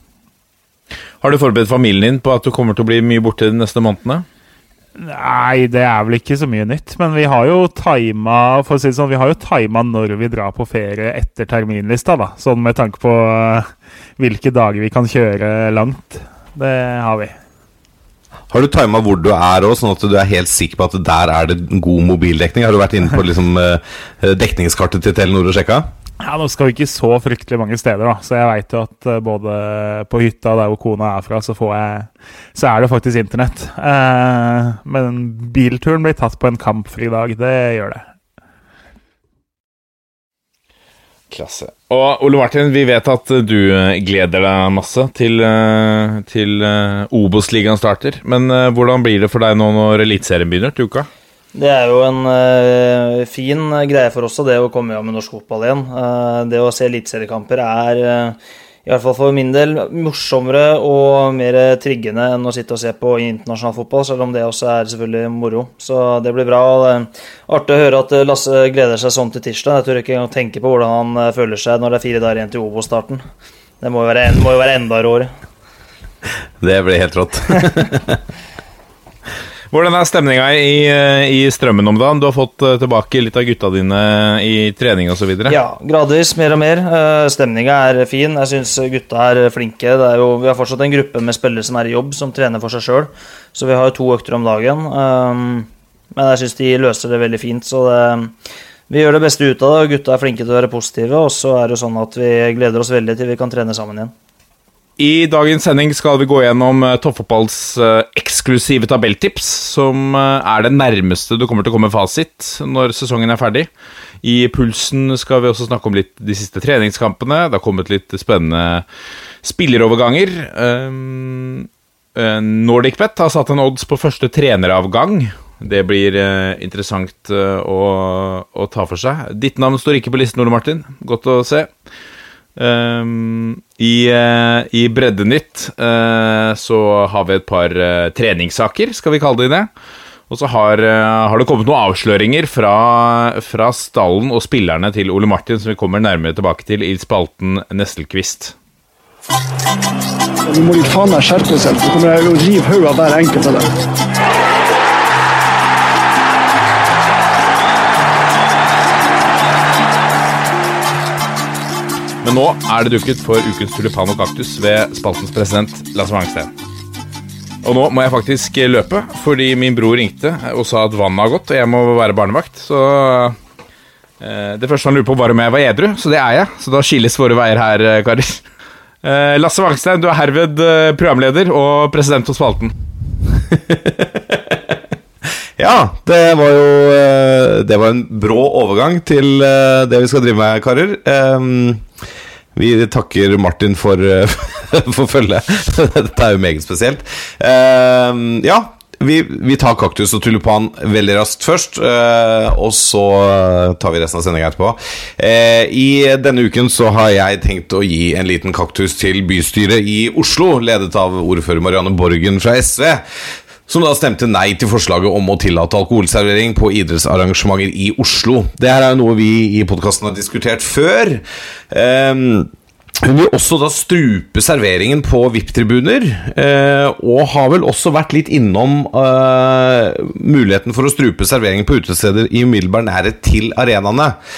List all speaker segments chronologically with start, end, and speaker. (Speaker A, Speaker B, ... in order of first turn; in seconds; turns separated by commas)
Speaker A: 1.2-4.2, Speaker B: 5.0-17.3, Speaker C: 18.5-25.9, Speaker B: 26.2-38.0, Speaker A: 41.3-51.1, Speaker D: 51.5-73.2, Speaker D: 73.8-75.3, Speaker C: 76.6-78.2, Speaker A: 79.7-85.6, Speaker D: 85.5-98.3, Speaker D: 98.9-104.1, Speaker A: 105.0-113.7, Speaker A: 114.2-118.8, Speaker A: 119.4-131.7, Speaker A: 132.6-139.7, Speaker A: 140.3-148.6, Speaker E: 150.5-153.7, Speaker A: 162.2-166.5, Speaker A: 167.6-173.4, Speaker A: 174.2-178.4, Speaker A: 179.0-182.7, Speaker C: 183.7-184.6, Speaker C: 185.6-191.8, Speaker C: 192.6-213.0, Speaker C: 213.7-222.5, Speaker C: 223.0-234.2